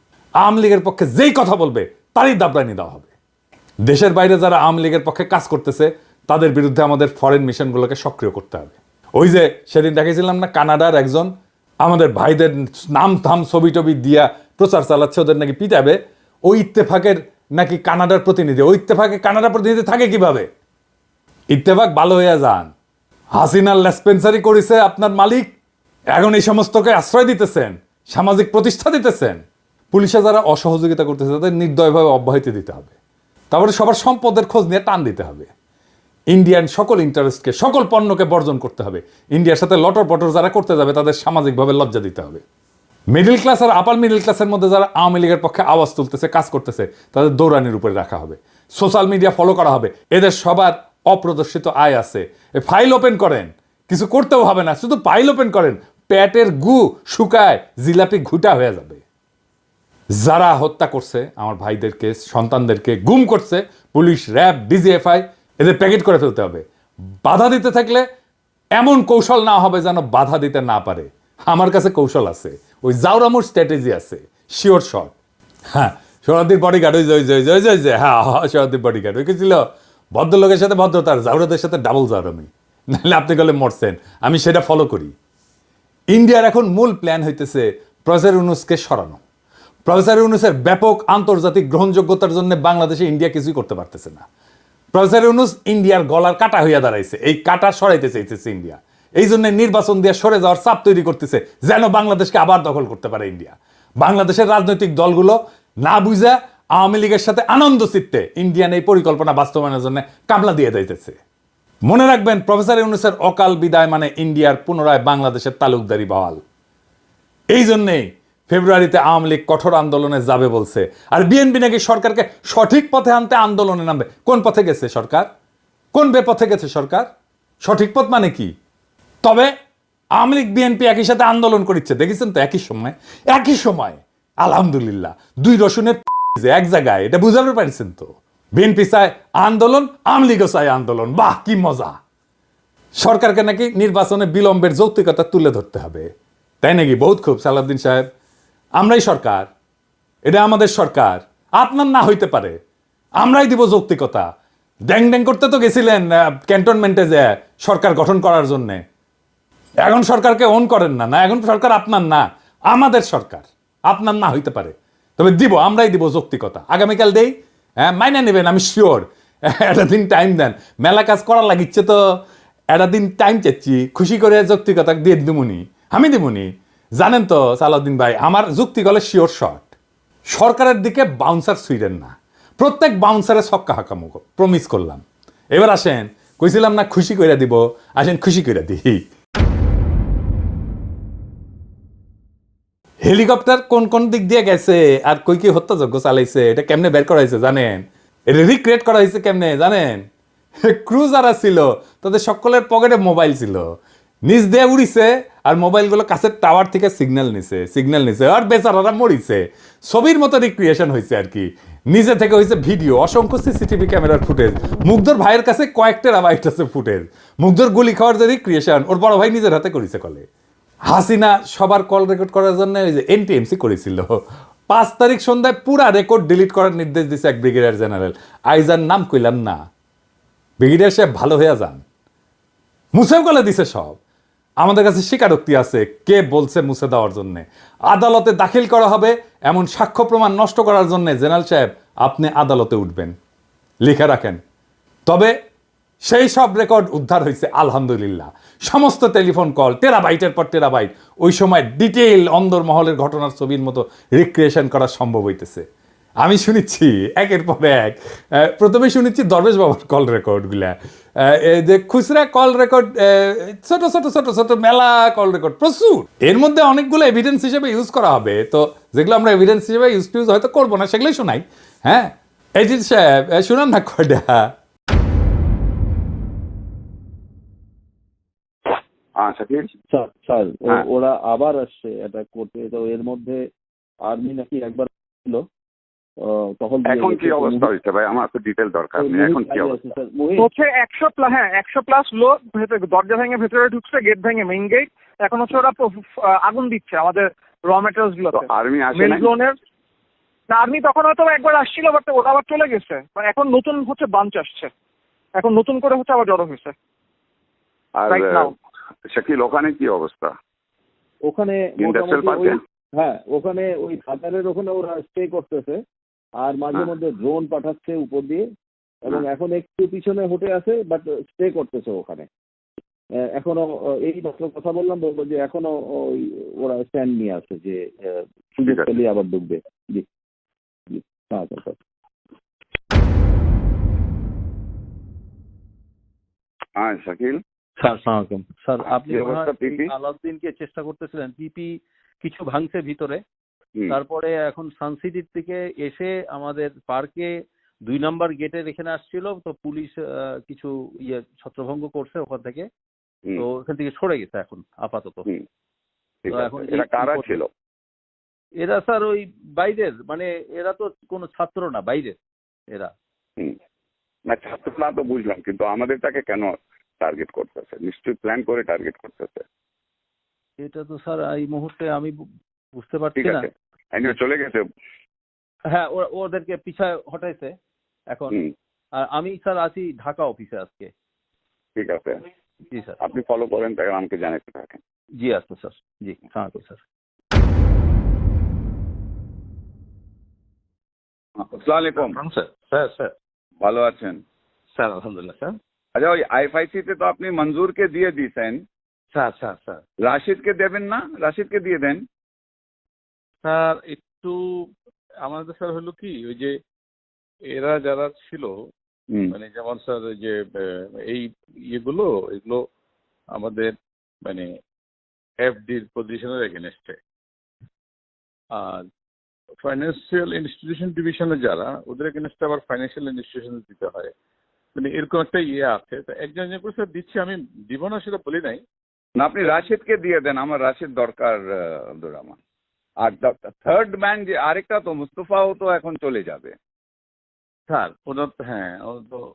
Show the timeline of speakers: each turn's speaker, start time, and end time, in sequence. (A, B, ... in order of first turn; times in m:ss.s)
0:00.4-0:03.1 A
0:03.8-0:20.5 A
0:21.5-0:22.7 A
0:23.4-0:25.5 A
0:26.1-0:32.9 A
0:33.5-0:35.5 A
0:36.3-0:42.4 A
0:43.1-0:59.0 A
1:00.1-1:06.6 A
1:07.2-1:08.0 A
1:08.8-1:15.1 A
1:15.7-1:25.1 A
1:26.1-1:29.2 A
1:29.9-1:34.2 A
1:34.9-1:51.2 A
1:51.8-1:56.4 A
1:57.5-2:05.3 A
2:05.9-2:07.1 A
2:07.6-2:08.5 A
2:09.2-2:09.5 A
2:10.2-2:22.0 A
2:23.0-2:26.1 A
2:26.6-2:28.1 A
2:28.8-2:29.5 A
2:30.2-2:32.6 A
2:33.2-2:34.2 A
2:34.9-2:38.8 A
2:39.8-2:52.0 A
2:52.7-2:59.7 A
3:00.3-3:09.0 A
3:13.0-3:20.1 A
3:20.6-3:23.7 A
3:24.2-3:40.2 A
3:40.9-3:44.2 A
3:44.7-3:49.6 A
3:50.6-3:51.8 A
3:52.9-3:54.0 A
3:54.6-4:03.1 A
4:03.8-4:04.4 A
4:05.1-4:05.3 A
4:06.0-4:15.6 A
4:16.2-4:34.5 A
4:39.2-4:39.7 B
4:39.9-4:43.4 C
4:44.1-4:45.4 C
4:46.3-4:47.7 C
4:46.8-4:49.8 B
4:49.0-4:50.5 C
4:50.4-4:59.5 D
4:58.3-4:59.3 B
5:00.5-5:04.7 D
5:05.4-5:06.7 D
5:08.0-5:08.5 B
5:08.1-5:08.5 D
5:09.1-5:10.3 B
5:11.2-5:15.8 C
5:11.8-5:12.6 B
5:16.4-5:18.4 C
5:19.0-5:22.3 C
5:23.3-5:27.8 C
5:28.5-5:30.0 C
5:31.3-5:31.7 C
5:36.8-5:37.4 B
5:37.8-5:41.7 E
5:38.9-5:39.9 B
5:42.2-5:43.2 E
5:43.9-5:47.3 E
5:47.9-5:52.6 E
5:53.4-5:55.3 E
5:56.2-5:57.5 B
5:56.3-5:57.4 E
5:58.6-6:02.2 E
6:04.3-6:09.4 B
6:10.6-6:12.1 E
6:12.8-6:13.5 E
6:13.2-6:14.6 B
6:15.7-6:17.5 E
6:18.1-6:18.4 E
6:19.0-6:20.9 E
6:21.8-6:22.2 B
6:22.7-6:23.0 E
6:23.0-6:24.8 B
6:25.2-6:26.8 E
6:31.4-6:32.2 B
6:32.0-6:33.1 F
6:33.6-6:34.2 B
6:34.8-6:35.5 F
6:36.0-6:38.6 B
6:39.1-6:39.8 F
6:39.2-6:39.6 G
6:40.0-6:42.0 B
6:43.4-6:44.4 G
6:45.2-6:46.5 G
6:47.5-6:48.5 G
6:49.3-6:52.6 G
6:53.3-6:53.7 G
6:55.4-6:57.0 G
6:58.5-6:58.8 G
6:59.6-7:04.1 G
7:04.8-7:08.6 G
7:09.2-7:12.4 B
7:13.0-7:16.5 B
7:17.7-7:19.2 G